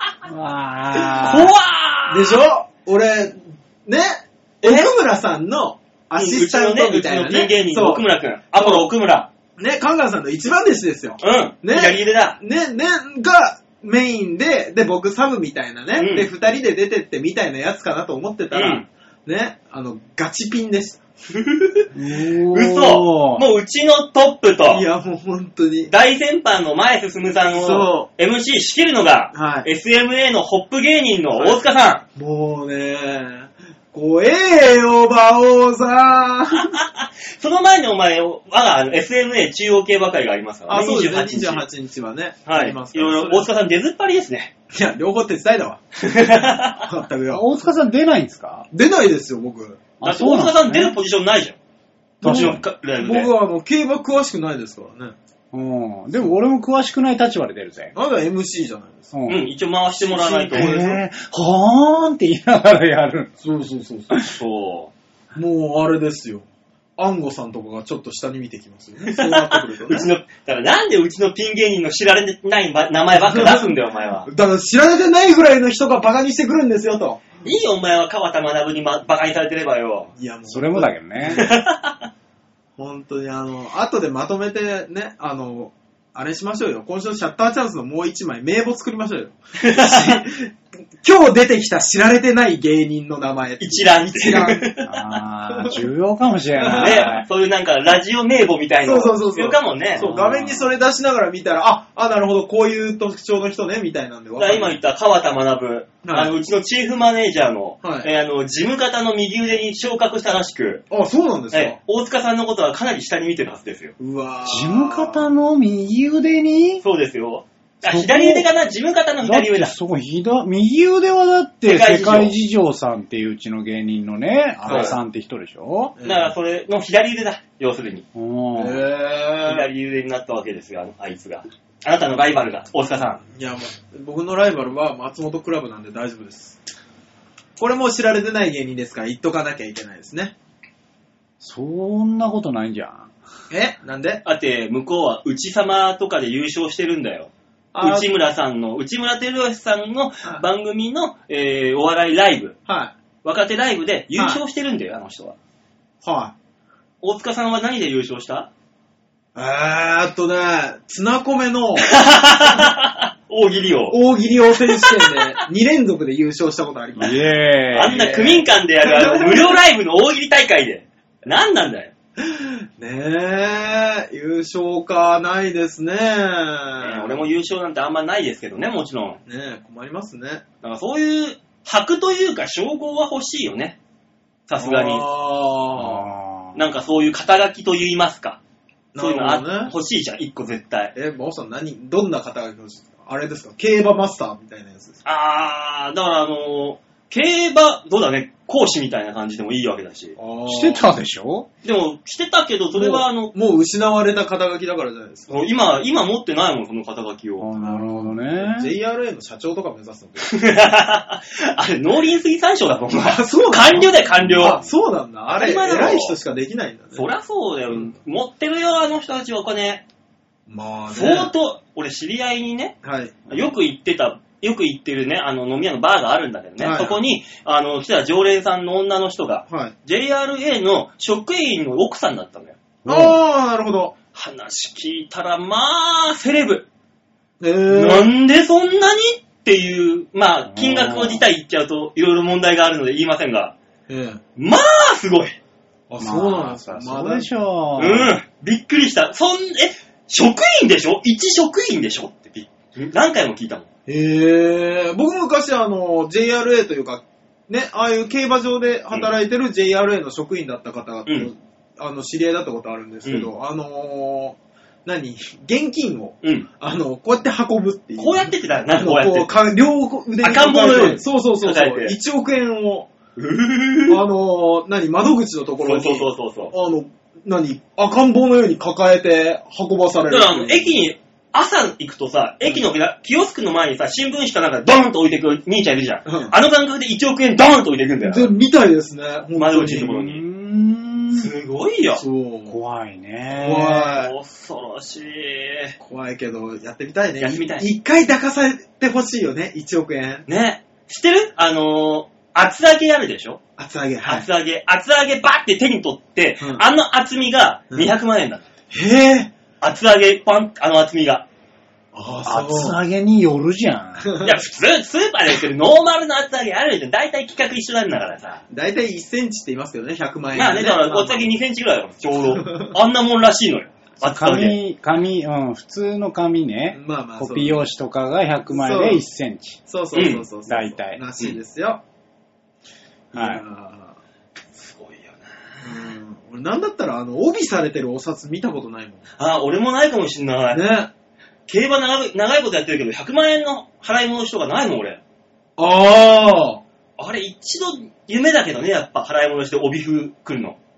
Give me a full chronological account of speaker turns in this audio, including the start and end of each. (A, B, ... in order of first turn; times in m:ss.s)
0:00.2-0:01.5 A
0:01.0-0:01.4 B
0:01.2-0:02.4 C
0:02.1-0:08.9 B
0:04.6-0:04.9 C
0:06.2-0:09.3 C
0:09.6-0:21.0 B
0:11.2-0:12.4 C
0:16.0-0:16.3 C
0:18.5-0:18.9 C
0:21.3-0:24.9 C
0:21.9-0:23.4 A
0:24.7-0:25.9 B
0:25.9-0:32.0 C
0:27.4-0:28.1 B
0:29.3-0:29.7 B
0:31.3-0:31.6 B
0:32.1-0:36.8 B
0:36.6-0:41.6 C
0:40.7-0:43.5 B
0:42.4-0:44.5 C
0:44.7-0:45.8 B
0:46.0-0:46.8 C
0:46.8-0:47.5 B
0:47.3-0:48.7 A
0:48.7-0:49.8 B
0:50.0-0:51.0 A
0:50.0-0:51.6 C
0:52.2-0:55.1 B
0:52.2-0:52.6 A
0:52.2-0:53.3 C
0:55.5-0:57.9 A
0:57.9-0:59.1 B
0:59.1-0:59.4 A
0:59.3-1:00.8 C
1:00.0-1:01.0 B
1:00.5-1:03.4 A
1:03.4-1:04.2 B
1:04.1-1:04.4 A
1:04.3-1:04.9 C
1:05.3-1:06.4 B
1:07.0-1:10.1 B
1:09.1-1:14.3 C
1:13.1-1:13.7 B
1:14.3-1:17.2 B
1:17.4-1:20.1 C
1:20.2-1:21.5 B
1:20.5-1:21.4 A
1:21.3-1:22.1 C
1:22.8-1:30.5 B
1:29.6-1:30.2 C
1:31.0-1:34.6 B
1:33.6-1:35.2 C
1:34.8-1:37.2 A
1:35.5-1:35.8 B
1:36.6-1:37.1 B
1:36.8-1:40.1 C
1:38.8-1:44.8 B
1:40.0-1:40.7 A
1:44.4-1:50.8 C
1:46.0-1:46.3 B
1:47.8-1:48.1 B
1:50.9-1:51.8 B
1:51.5-1:53.9 C
1:54.0-1:55.2 B
1:54.4-1:56.8 A
1:56.8-1:59.7 C
1:57.8-1:58.4 A
1:59.2-2:05.9 A
2:01.6-2:02.3 C
2:04.6-2:05.0 B
2:04.7-2:04.9 C
2:06.0-2:06.3 B
2:06.0-2:08.0 C
2:08.1-2:08.9 A
2:08.6-2:09.7 B
2:09.4-2:13.2 C
2:13.2-2:16.6 B
2:17.6-2:20.3 B
2:21.4-2:23.1 A
2:23.5-2:24.2 B
2:24.2-2:32.6 C
2:27.7-2:28.1 B
2:32.7-2:32.9 B
2:33.2-2:35.4 C
2:34.1-2:34.4 B
2:36.0-2:36.3 B
2:37.0-2:38.5 C
2:39.3-2:42.0 B
2:41.8-2:44.0 C
2:43.9-2:47.2 B
2:44.6-2:45.1 C
2:47.0-2:48.1 A
2:47.7-2:51.9 C
2:47.8-2:49.6 B
2:52.2-2:57.2 B
2:56.8-2:59.2 C
2:59.3-3:00.4 B
3:00.6-3:03.8 C
3:04.5-3:05.0 C
3:04.6-3:06.1 B
3:05.8-3:06.6 A
3:06.5-3:08.4 C
3:08.9-3:09.7 B
3:09.0-3:10.9 C
3:10.9-3:15.0 B
3:15.0-3:20.1 C
3:20.2-3:20.8 B
3:20.4-3:21.5 A
3:21.6-3:23.3 C
3:22.7-3:25.3 B
3:25.3-3:27.5 C
3:27.4-3:28.7 A
3:27.6-3:30.4 B
3:30.2-3:34.6 C
3:32.9-3:37.1 B
3:35.3-3:36.2 C
3:36.9-3:39.8 C
3:40.5-3:41.3 B
3:40.9-3:42.8 C
3:42.8-3:43.2 B
3:43.3-3:52.6 C
3:46.6-3:47.0 B
3:49.5-3:49.7 B
3:52.8-3:53.2 A
3:52.9-3:53.9 B
3:54.1-3:56.7 C
3:57.4-3:58.1 B
3:57.7-4:03.6 C
4:00.5-4:01.2 A
4:03.9-4:04.2 B
4:04.4-4:05.4 C
4:05.9-4:07.3 B
4:06.0-4:08.1 A
4:07.8-4:13.7 C
4:13.9-4:32.9 B
4:28.0-4:29.3 C
4:30.2-4:31.9 C
4:33.2-4:34.0 C
4:33.9-4:40.8 B
4:35.6-4:36.5 C
4:40.1-4:48.3 C
4:46.0-4:46.3 B
4:48.0-4:50.0 B
4:49.4-4:50.2 C
4:49.9-4:51.3 A
4:51.1-4:52.0 C
4:52.0-4:52.6 B
4:52.5-4:53.9 A
4:53.3-4:54.1 B
4:53.9-4:55.8 C
4:55.8-5:00.2 B
4:57.2-4:57.7 C
5:00.3-5:03.4 C
5:03.6-5:04.3 B
5:04.0-5:08.4 C
5:06.4-5:06.6 B
5:08.7-5:09.3 B
5:09.6-5:11.2 C
5:11.9-5:12.8 B
5:12.2-5:14.1 A
5:14.0-5:14.4 B
5:14.2-5:18.4 C
5:18.5-5:21.3 B
5:20.3-5:24.6 C
5:22.3-5:22.7 B
5:24.0-5:29.6 A
5:26.7-5:27.6 B
5:28.5-5:29.0 B
5:29.7-5:31.8 B
5:29.9-5:30.2 C
5:30.5-5:31.0 A
5:33.1-5:34.0 B
5:33.1-5:33.4 A
5:34.6-5:35.9 C
5:35.6-5:39.0 B
5:39.2-5:40.7 C
5:40.5-5:40.9 B
5:41.5-5:45.0 C
5:45.6-5:46.6 B
5:47.0-5:50.6 C